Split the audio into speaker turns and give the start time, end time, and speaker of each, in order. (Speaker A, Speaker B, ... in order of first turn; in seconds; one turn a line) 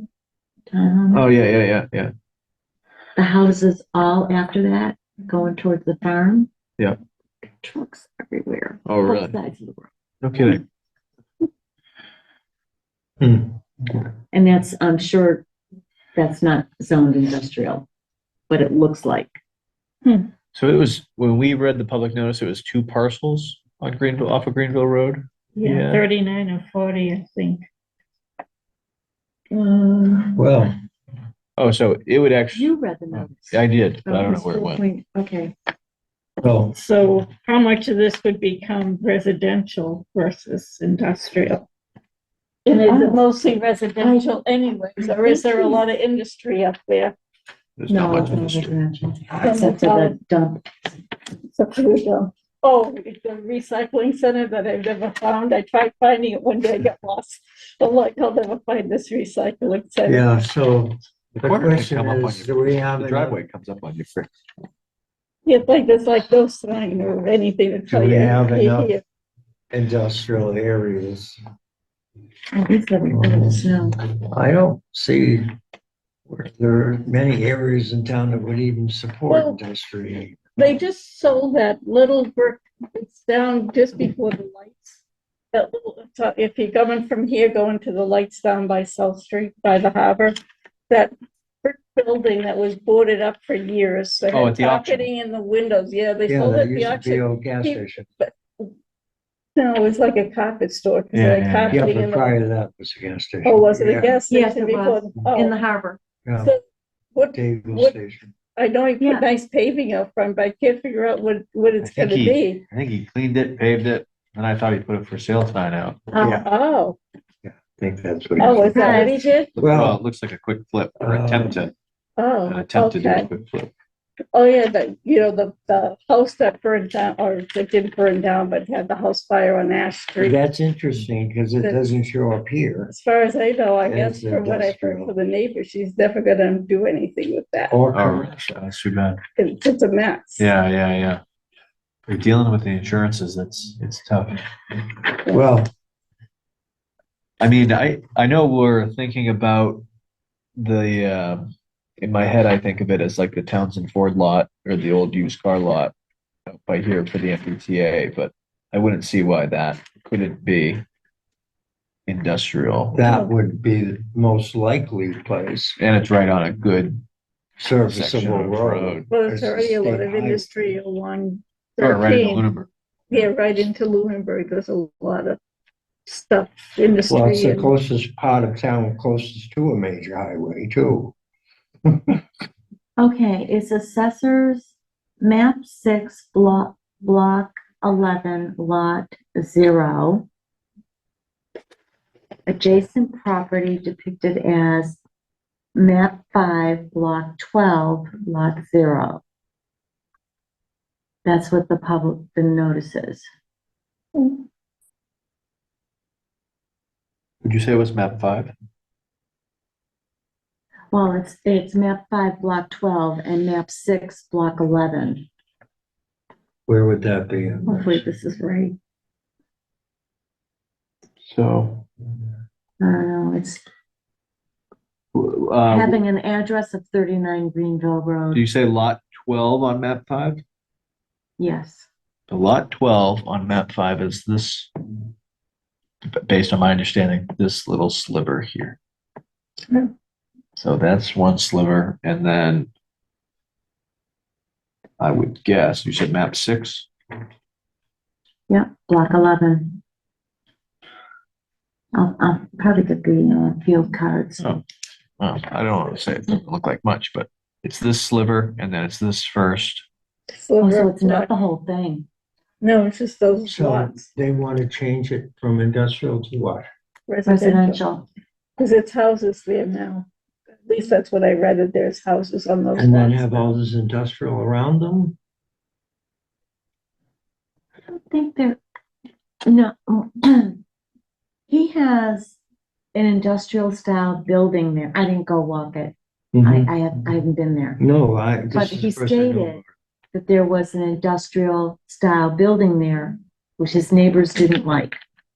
Speaker A: 0.7-1.3
Speaker B: 1.1-2.1
Speaker A: 3.1-6.5
Speaker A: 7.6-9.9
Speaker B: 8.8-9.4
Speaker B: 10.2-10.6
Speaker C: 13.2-13.6
Speaker A: 14.3-15.4
Speaker A: 16.1-17.9
Speaker A: 18.5-19.4
Speaker B: 20.5-26.0
Speaker D: 25.6-27.6
Speaker A: 29.5-30.4
Speaker C: 30.4-30.7
Speaker B: 31.6-34.8
Speaker A: 32.5-35.5
Speaker C: 36.4-36.7
Speaker D: 36.7-41.6
Speaker D: 42.6-47.1
Speaker A: 42.7-43.2
Speaker A: 45.0-45.8
Speaker B: 47.8-48.8
Speaker A: 47.9-50.7
Speaker D: 49.4-50.1
Speaker D: 51.5-60.2
Speaker C: 60.0-63.4
Speaker B: 61.4-64.3
Speaker D: 65.5-69.0
Speaker C: 67.9-68.9
Speaker C: 69.7-71.4
Speaker A: 72.5-74.0
Speaker C: 73.1-75.5
Speaker C: 76.3-80.4
Speaker D: 79.3-79.6
Speaker D: 80.6-90.3
Speaker D: 91.6-98.7
Speaker B: 94.3-95.1
Speaker C: 96.3-98.1
Speaker D: 99.5-102.3
Speaker B: 101.1-101.8
Speaker C: 101.7-104.2
Speaker D: 103.4-105.5
Speaker A: 104.3-106.0
Speaker C: 106.2-106.5
Speaker D: 107.1-108.0
Speaker C: 107.3-108.3
Speaker D: 108.5-112.6
Speaker A: 109.0-109.3
Speaker B: 111.8-116.2
Speaker A: 116.1-116.4
Speaker C: 116.2-116.5
Speaker D: 116.2-117.0
Speaker C: 117.4-119.0
Speaker D: 118.4-119.5
Speaker A: 118.4-119.3
Speaker B: 119.6-121.7
Speaker C: 119.6-120.0
Speaker C: 121.0-121.6
Speaker D: 122.2-123.3
Speaker B: 122.5-123.7
Speaker D: 124.3-130.4
Speaker C: 130.2-132.9
Speaker D: 132.9-137.8
Speaker C: 133.8-135.1
Speaker C: 137.7-138.3
Speaker B: 137.9-139.2
Speaker D: 139.3-140.5
Speaker B: 140.4-141.2
Speaker B: 142.1-144.4
Speaker C: 145.3-145.7
Speaker B: 147.4-149.8
Speaker B: 150.6-155.9
Speaker B: 156.5-160.8
Speaker B: 162.1-163.0
Speaker C: 162.9-165.8
Speaker D: 163.0-163.3
Speaker B: 165.8-167.0
Speaker C: 167.6-170.8
Speaker B: 167.8-169.1
Speaker D: 169.1-172.4
Speaker B: 171.8-172.7
Speaker D: 173.1-175.4
Speaker D: 176.1-177.7
Speaker C: 177.1-181.1
Speaker C: 181.9-182.2
Speaker A: 183.0-190.3
Speaker A: 192.5-195.0
Speaker A: 195.7-199.2
Speaker A: 201.2-203.3
Speaker D: 204.2-204.4
Speaker B: 207.4-208.5
Speaker A: 210.9-215.3
Speaker C: 216.7-218.1
Speaker A: 217.7-218.7
Speaker B: 221.2-221.9
Speaker A: 222.8-223.6
Speaker B: 225.1-226.0
Speaker A: 225.7-228.4
Speaker B: 228.3-230.4
Speaker A: 231.4-231.9
Speaker B: 232.3-234.7
Speaker B: 236.1-238.8
Speaker B: 240.6-242.7
Speaker B: 245.0-246.9
Speaker A: 248.5-249.8
Speaker A: 251.9-254.6
Speaker B: 255.2-259.9
Speaker D: 260.3-261.3
Speaker A: 260.6-262.1
Speaker D: 262.6-264.1
Speaker C: 263.5-266.6
Speaker D: 267.1-267.8
Speaker A: 267.2-268.1
Speaker D: 268.6-270.1
Speaker D: 270.6-273.5
Speaker C: 272.8-275.1
Speaker A: 277.9-278.6
Speaker A: 279.4-280.6
Speaker A: 281.5-282.4
Speaker A: 282.9-287.8
Speaker C: 286.3-286.7
Speaker C: 287.8-289.6
Speaker A: 288.5-295.0